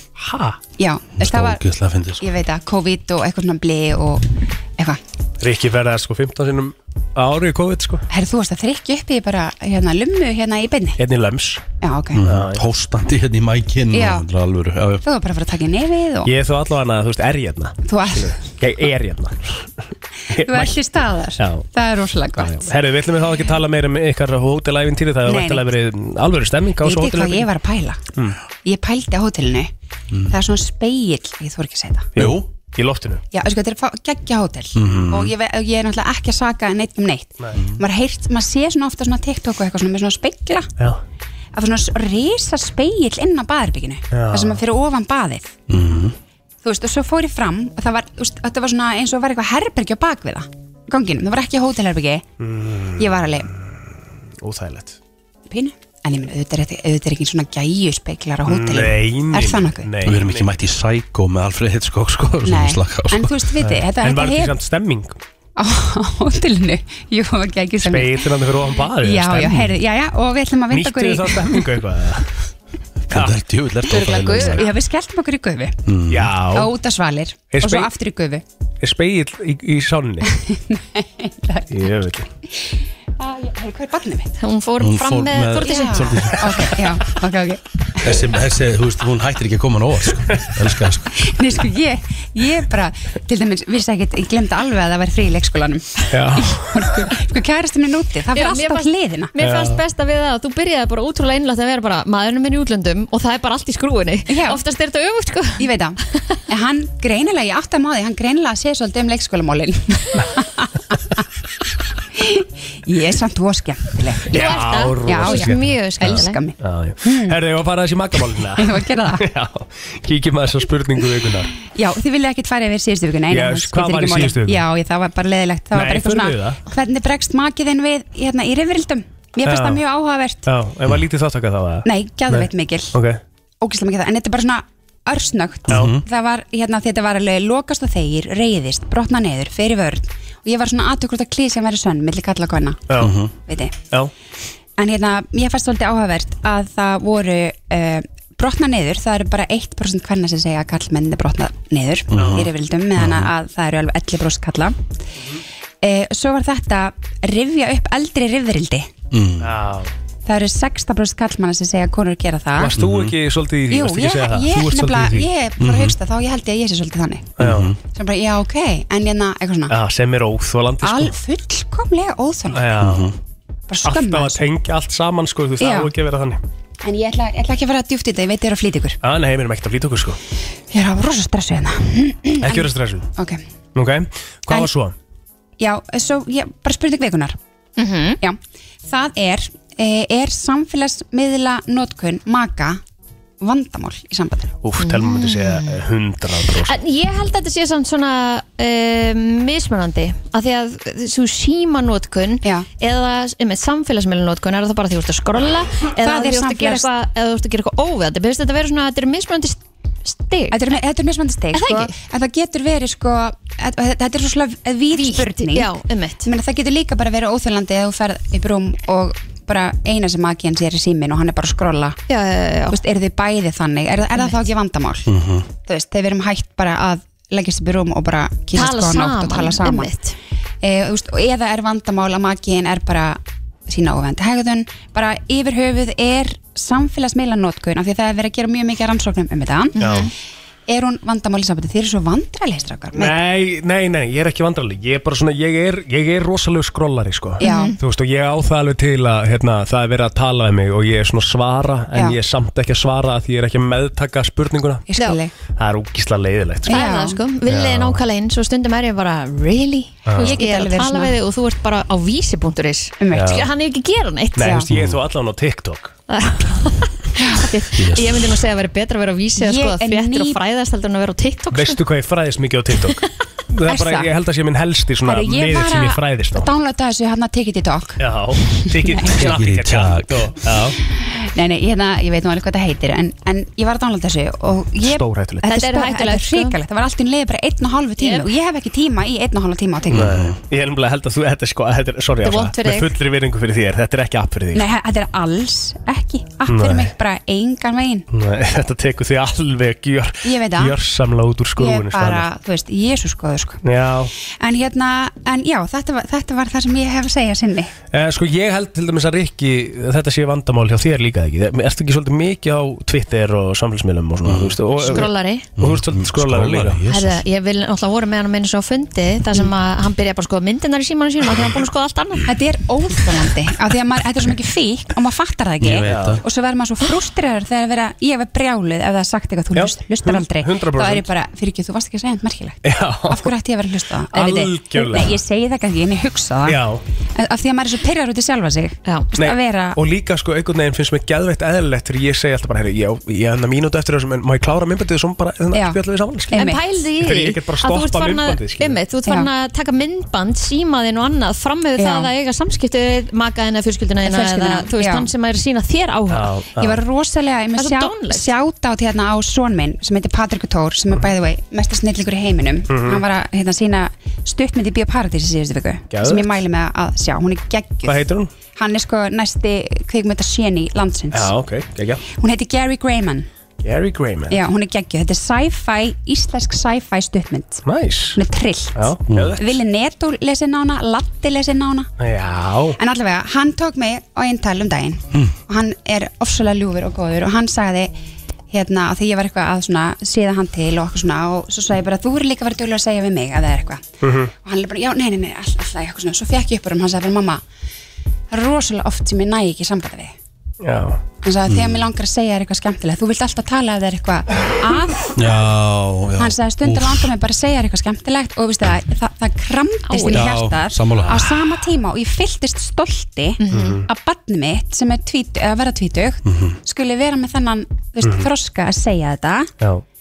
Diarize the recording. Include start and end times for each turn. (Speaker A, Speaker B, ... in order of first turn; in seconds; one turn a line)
Speaker A: 0.2-0.6
Speaker B: 0.8-1.6
Speaker C: 1.2-2.3
Speaker B: 2.2-4.2
Speaker A: 5.4-8.0
Speaker B: 8.1-11.0
Speaker A: 11.0-11.7
Speaker B: 11.8-12.2
Speaker C: 12.1-15.0
Speaker A: 12.2-12.6
Speaker B: 13.9-14.3
Speaker B: 15.0-16.3
Speaker A: 16.2-19.7
Speaker B: 17.8-18.4
Speaker A: 20.3-20.8
Speaker B: 20.3-22.7
Speaker A: 21.4-21.7
Speaker A: 22.4-27.5
Speaker B: 25.2-25.6
Speaker B: 26.8-28.0
Speaker B: 28.6-29.7
Speaker B: 30.3-32.1
Speaker A: 32.1-33.2
Speaker C: 32.2-32.5
Speaker B: 33.3-40.7
Speaker C: 34.8-35.3
Speaker B: 41.5-45.5
Speaker A: 44.1-44.6
Speaker C: 45.7-46.1
Speaker B: 46.6-52.2
Speaker A: 52.4-55.0
Speaker B: 53.0-53.5
Speaker B: 55.5-59.9
Speaker A: 58.5-60.5
Speaker C: 60.0-63.4
Speaker B: 62.4-64.6
Speaker A: 63.6-65.2
Speaker B: 65.6-68.3
Speaker A: 67.8-69.7
Speaker B: 69.0-71.6
Speaker A: 70.7-72.3
Speaker C: 73.1-74.7
Speaker A: 73.1-73.4
Speaker B: 73.8-75.8
Speaker C: 75.8-76.3
Speaker A: 76.1-76.7
Speaker B: 76.5-78.4
Speaker A: 77.5-77.9
Speaker A: 78.8-80.3
Speaker B: 80.3-81.9
Speaker A: 81.7-82.3
Speaker B: 82.6-84.3
Speaker D: 84.4-86.1
Speaker C: 84.8-86.6
Speaker B: 85.6-88.1
Speaker C: 88.0-91.1
Speaker B: 91.2-99.3
Speaker A: 96.1-97.1
Speaker D: 98.3-105.7
Speaker A: 99.4-99.8
Speaker B: 104.3-104.6
Speaker B: 105.6-106.0
Speaker B: 106.5-111.2
Speaker B: 112.2-117.4
Speaker A: 114.3-121.5
Speaker D: 114.3-116.4
Speaker B: 118.5-119.2
Speaker B: 121.6-130.5
Speaker A: 123.3-124.6
Speaker A: 125.7-126.6
Speaker A: 129.4-129.8
Speaker A: 130.4-133.2
Speaker B: 131.8-132.9
Speaker B: 133.6-142.8
Speaker C: 135.7-136.0
Speaker A: 135.7-136.0
Speaker A: 142.9-143.2
Speaker C: 143.0-143.3
Speaker B: 143.5-143.7
Speaker B: 144.8-154.8
Speaker C: 152.1-153.3
Speaker A: 152.2-152.4
Speaker B: 155.8-158.9
Speaker C: 159.1-159.5
Speaker A: 159.4-159.9
Speaker B: 160.2-162.7
Speaker A: 162.6-165.3
Speaker C: 162.8-163.1
Speaker B: 163.7-167.3
Speaker C: 165.6-165.9
Speaker A: 167.4-167.7
Speaker C: 167.4-167.8
Speaker B: 167.9-169.7
Speaker A: 169.7-171.2
Speaker B: 170.8-172.7
Speaker A: 172.5-173.1
Speaker C: 172.8-173.1
Speaker B: 173.7-174.4
Speaker A: 173.8-176.4
Speaker B: 175.6-175.9
Speaker B: 176.8-179.0
Speaker A: 179.0-180.2
Speaker B: 180.7-183.4
Speaker A: 182.4-183.1
Speaker A: 183.7-184.9
Speaker B: 185.6-187.4
Speaker D: 187.8-188.2
Speaker B: 188.2-192.8
Speaker B: 193.4-194.6
Speaker A: 194.6-196.7
Speaker D: 194.8-195.8
Speaker D: 196.6-210.6
Speaker B: 206.0-206.9
Speaker B: 210.5-215.7
Speaker D: 211.5-211.9
Speaker D: 214.9-216.3
Speaker B: 216.2-222.0
Speaker D: 222.1-222.8
Speaker B: 222.7-225.0
Speaker D: 224.1-224.4
Speaker C: 225.1-225.5
Speaker B: 225.6-229.9
Speaker D: 228.5-230.1
Speaker B: 230.6-239.8
Speaker D: 239.8-240.1
Speaker A: 239.8-240.1
Speaker B: 240.7-243.2
Speaker A: 242.9-254.8
Speaker B: 247.4-247.7
Speaker D: 247.4-247.8
Speaker B: 254.9-255.3
Speaker A: 255.5-256.9
Speaker B: 256.6-257.2
Speaker D: 256.7-264.6
Speaker A: 260.1-260.4
Speaker B: 260.1-261.2
Speaker B: 263.0-263.4
Speaker A: 263.1-263.5
Speaker A: 264.4-265.9
Speaker B: 264.4-264.6
Speaker C: 264.7-265.0
Speaker D: 266.1-271.8
Speaker B: 267.2-267.5
Speaker C: 267.8-268.2
Speaker B: 269.4-270.4
Speaker A: 271.5-276.5
Speaker B: 273.6-274.1
Speaker B: 275.0-278.0
Speaker A: 278.0-280.8
Speaker B: 278.6-279.2
Speaker C: 279.1-280.2
Speaker B: 280.8-290.1
Speaker A: 284.8-285.5
Speaker D: 285.4-286.6
Speaker D: 288.0-288.3
Speaker C: 289.9-290.4
Speaker A: 289.9-294.7
Speaker D: 292.2-292.9
Speaker B: 294.5-298.1
Speaker A: 296.5-296.9
Speaker A: 298.1-302.3
Speaker B: 300.2-300.8
Speaker B: 301.6-303.6
Speaker A: 303.6-304.1
Speaker B: 304.4-307.7
Speaker A: 307.9-316.8
Speaker C: 314.2-314.6
Speaker D: 314.8-315.4
Speaker C: 315.6-317.2
Speaker D: 316.9-322.3
Speaker B: 322.3-336.6
Speaker C: 325.6-326.2
Speaker A: 325.8-326.2
Speaker A: 329.5-331.1
Speaker A: 332.6-333.3
Speaker A: 334.1-335.2
Speaker A: 336.4-336.8
Speaker B: 337.1-339.8
Speaker D: 338.8-339.1
Speaker A: 339.2-348.8
Speaker B: 345.5-345.8
Speaker B: 346.3-346.6
Speaker D: 346.3-356.3
Speaker B: 351.8-352.1
Speaker B: 354.0-355.1
Speaker A: 356.1-356.8
Speaker B: 356.6-371.3
Speaker D: 357.6-358.3
Speaker A: 362.7-363.0
Speaker A: 365.9-366.4
Speaker A: 367.8-368.3
Speaker A: 371.1-372.0
Speaker B: 372.1-373.3
Speaker A: 373.6-374.4
Speaker B: 374.3-377.6
Speaker A: 377.6-378.2
Speaker B: 378.1-381.9
Speaker A: 378.7-379.4
Speaker C: 379.1-379.4
Speaker A: 382.0-382.8
Speaker B: 382.8-387.9
Speaker B: 388.5-397.4
Speaker A: 394.0-394.3
Speaker B: 398.3-400.1
Speaker A: 400.6-401.0
Speaker B: 401.2-405.2
Speaker C: 401.4-401.9
Speaker C: 405.1-407.1
Speaker B: 406.2-419.5
Speaker D: 409.9-410.3
Speaker C: 410.1-411.3
Speaker D: 413.4-413.8
Speaker A: 413.5-413.9
Speaker C: 416.2-416.6
Speaker A: 418.0-418.3